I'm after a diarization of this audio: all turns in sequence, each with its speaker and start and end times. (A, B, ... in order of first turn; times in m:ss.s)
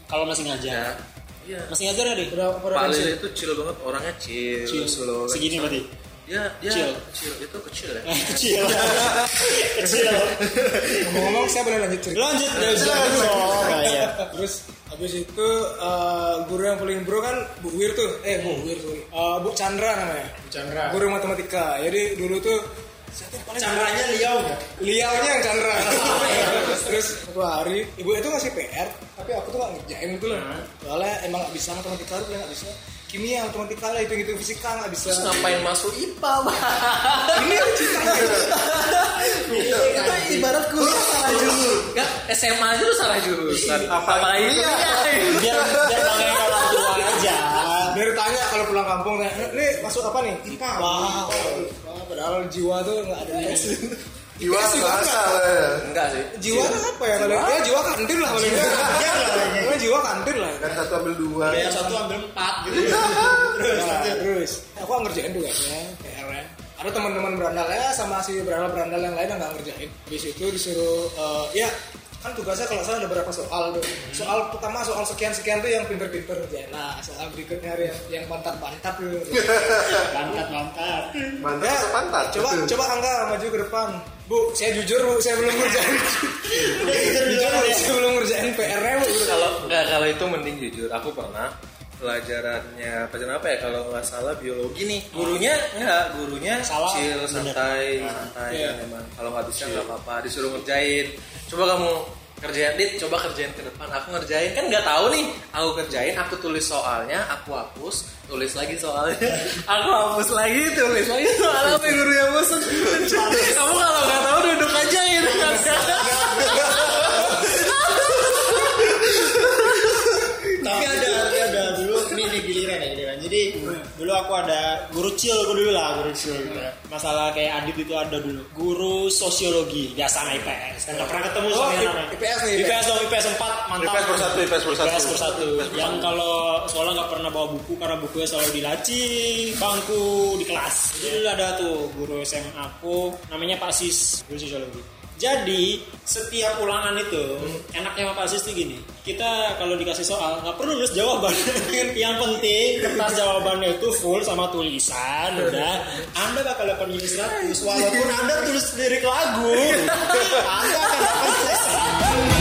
0:00.1-0:01.0 A
0:00.7-0:01.7 B
0:01.7-0:02.4 A
0:02.3-0:03.2 C
0:02.7-0:09.2 B
0:04.7-0:05.9 A
0:06.7-0:07.0 A
0:08.0-0:11.4 A
0:08.9-0:09.3 D
0:10.0-0:11.1 D
0:11.0-0:24.0 C
0:12.1-0:14.3 A
0:12.5-0:12.9 B
0:12.6-0:13.8 D
0:18.4-0:18.7 A
0:20.4-0:21.0 A
0:23.5-0:24.6 A
0:24.8-0:35.7 C
0:25.8-0:27.0 A
0:30.3-0:30.7 A
0:35.0-0:45.7 B
0:37.3-0:38.6 C
0:38.1-0:38.5 D
0:39.3-0:41.3 A
0:39.5-0:40.0 D
0:40.8-0:42.0 D
0:43.5-0:43.9 A
0:43.8-0:47.0 D
0:44.8-0:48.0 A
0:47.9-0:53.8 C
0:49.7-0:51.8 A
0:53.6-0:55.9 D
0:54.4-0:55.4 C
0:55.8-0:57.6 B
0:56.3-1:00.9 C
0:58.3-0:59.8 A
1:00.6-1:02.0 D
1:01.4-1:04.2 A
1:01.6-1:02.0 C
1:02.7-1:03.5 D
1:03.6-1:19.8 C
1:19.4-1:20.1 D
1:20.0-1:21.4 A
1:21.4-1:22.7 D
1:21.6-1:29.7 C
1:26.4-1:28.0 A
1:29.1-1:59.0 B
1:35.1-1:35.4 A
1:36.6-1:38.8 A
1:55.5-1:57.6 C
1:55.5-1:56.9 A
1:56.6-1:57.2 D
1:58.8-2:01.4 D
2:00.2-2:42.2 A
2:10.9-2:12.8 C
2:13.8-2:16.1 D
2:15.5-2:16.0 B
2:31.6-2:32.1 C
2:32.6-2:33.2 C